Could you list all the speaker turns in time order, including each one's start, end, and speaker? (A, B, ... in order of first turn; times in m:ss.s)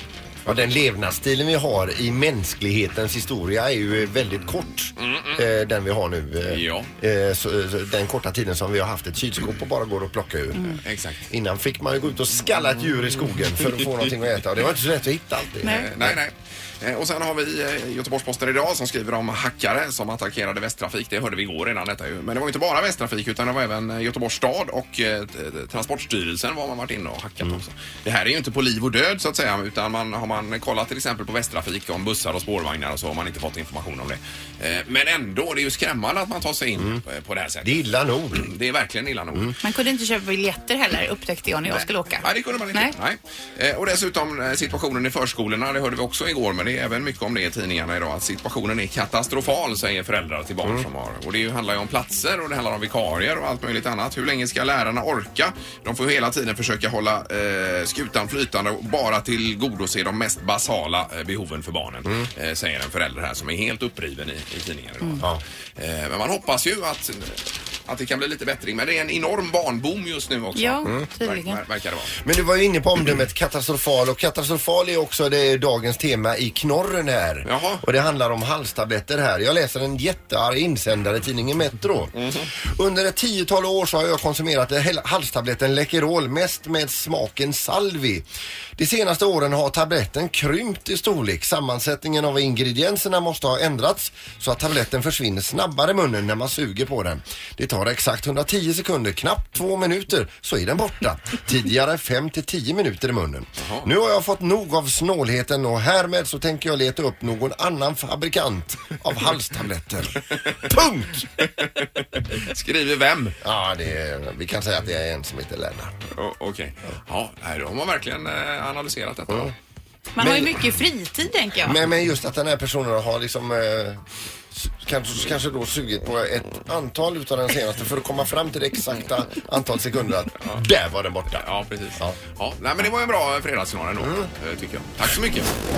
0:00.5-0:10.8 A
0:05.0-0:05.4 B
0:06.5-0:06.9 B
0:10.8-0:11.2 B
0:11.3-0:16.2 A
0:15.6-0:15.9 C
0:15.6-0:37.7 B
0:37.6-0:38.5 A
0:38.3-0:39.6 B
0:39.6-0:43.0 C
0:41.7-1:05.3 B
1:05.8-1:12.1 B
1:10.6-1:11.6 C
1:12.2-1:28.2 A
1:17.4-1:17.8 B
1:22.2-1:22.5 B
1:28.8-1:51.3 A
1:43.6-1:43.9 B
1:51.4-1:53.4 B
1:53.4-1:55.9 A
1:56.2-1:59.5 B
2:00.2-2:01.8 C
2:00.2-2:00.7 A
2:01.6-2:11.5 A
2:11.3-2:15.5 B
2:14.0-2:14.3 A